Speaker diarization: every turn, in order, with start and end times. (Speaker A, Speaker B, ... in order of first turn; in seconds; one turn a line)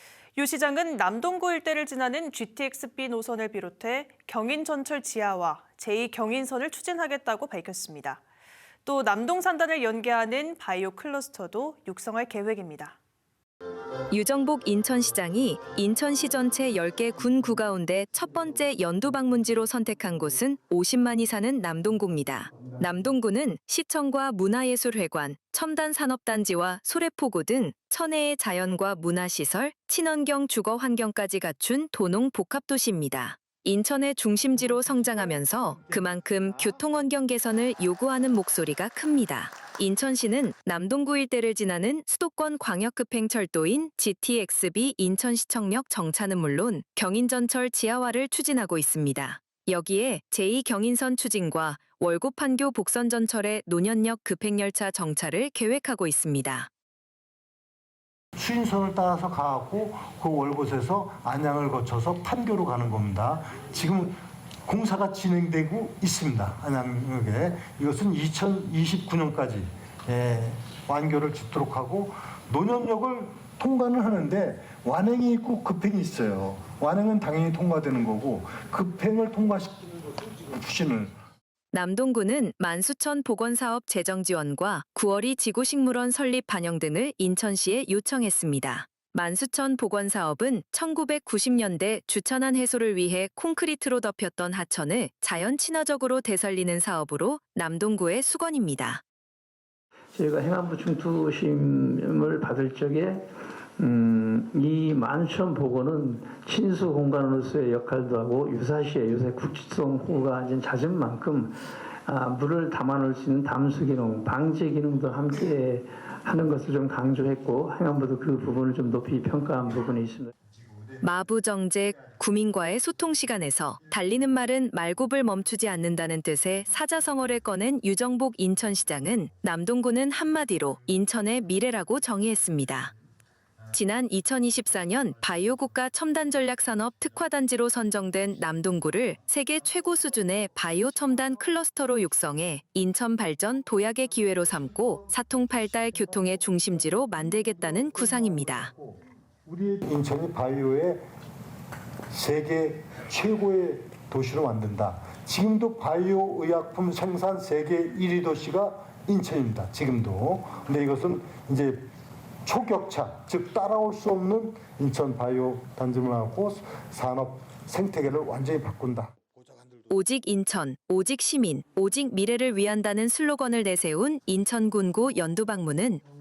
Speaker A: 0.4-8.2
Speaker A: 8.8-13.0
Speaker B: 14.1-56.7
Speaker C: 58.4-81.2
Speaker B: 81.7-99.0
Speaker D: 100.2-120.3
Speaker B: 121.0-132.9
Speaker B: 133.7-148.7
Speaker C: 147.8-151.0
Speaker C: 152.1-161.9
Speaker C: 162.4-169.7
Speaker B: 169.9-176.0